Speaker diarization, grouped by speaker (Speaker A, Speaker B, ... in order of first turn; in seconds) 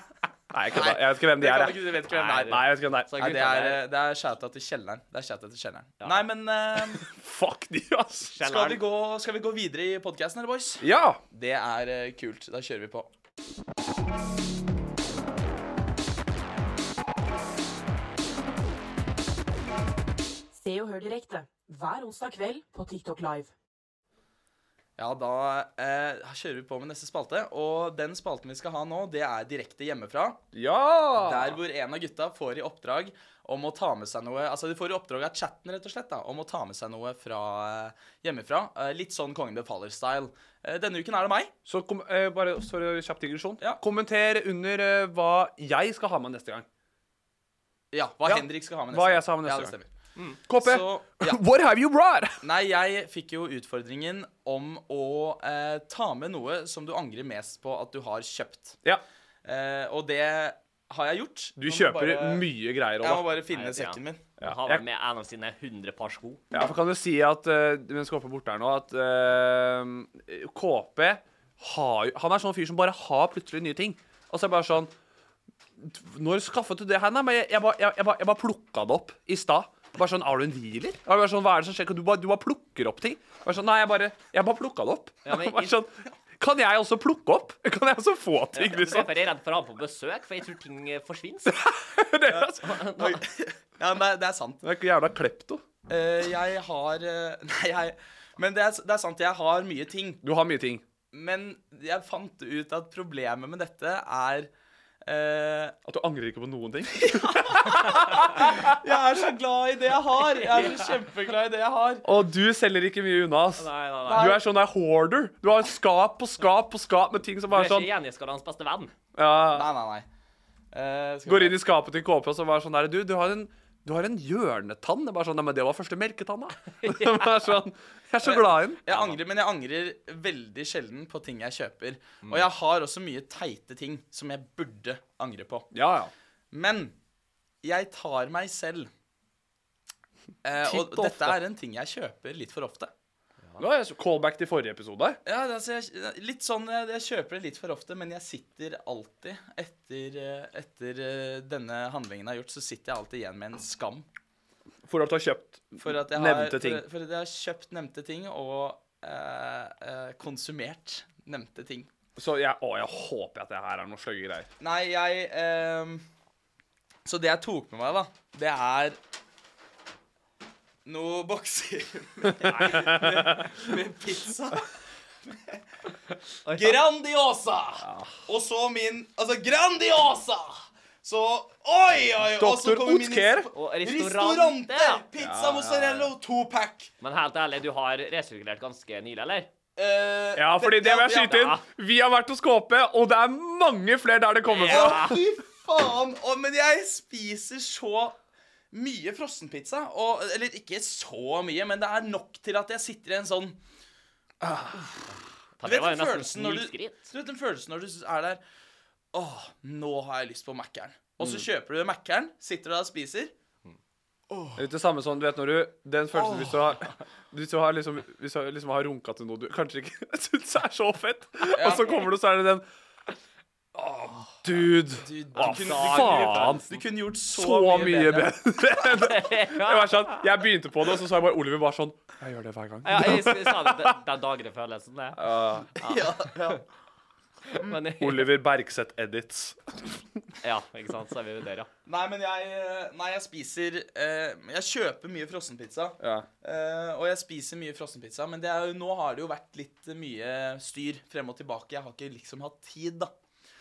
Speaker A: 0.5-1.9, 2.5-3.1, 6.9-8.3, 10.8-11.2, 30.5-31.6, 41.7-46.7, 48.3-49.7, 50.5-52.4, 61.6-63.3, 64.4-64.8, 66.5-74.9, 75.8-89.1, 91.5-92.6, 94.6-95.6, 100.2-100.8, 105.8-108.8, 112.0-117.9, 119.2-119.7, 121.3-128.8, 135.7-136.1, 140.6-141.4, 143.6-145.2, 154.9-156.8, 162.2-164.5, 172.4-173.1, 177.8-178.2, 182.4-183.5, 185.2-186.1, 190.4-195.2, 204.4-204.8, 214.6-222.7, 223.8-226.7, 227.3-234.0, 235.2-235.8, 238.0-240.2, 246.0-246.3
Speaker B: 0.7-7.0, 8.4-13.1, 25.0-30.4, 31.1-41.5, 47.9-49.9, 50.5-51.4, 52.4-58.8, 59.4-62.5, 63.0-64.2, 92.3-94.6, 95.9-100.2, 101.1-104.5, 105.0-105.8, 107.3-112.1, 114.1-114.4, 119.5-120.1, 120.7-121.6, 128.2-135.7, 136.5-136.9, 137.6-138.9, 140.4-142.9, 145.2-154.1, 155.8-161.9, 164.6-166.1, 167.1-169.0, 170.8-174.7, 175.3-175.6, 176.5-186.9, 189.8-191.6, 194.6-198.2, 198.7-203.6, 204.7-205.1, 205.6-208.4, 209.1-213.3, 214.3-214.6, 216.2-216.9, 221.5-222.1, 224.9-228.3, 235.8-236.6, 241.9-253.1
Speaker C: 2.1-3.8, 8.3-8.8, 63.5-66.4, 85.3-85.8, 88.5-91.6, 92.5-93.2, 110.4-111.0, 113.6-114.4, 117.5-119.0, 126.7-127.5, 128.9-129.2, 172.6-173.1, 176.4-176.8, 183.6-185.0, 187.0-189.5, 191.3-191.6, 194.5-195.2, 205.6-207.1, 225.3-226.8, 228.8-230.3, 232.8-236.6, 237.5-238.3, 240.4-241.7
Speaker D: 20.5-23.5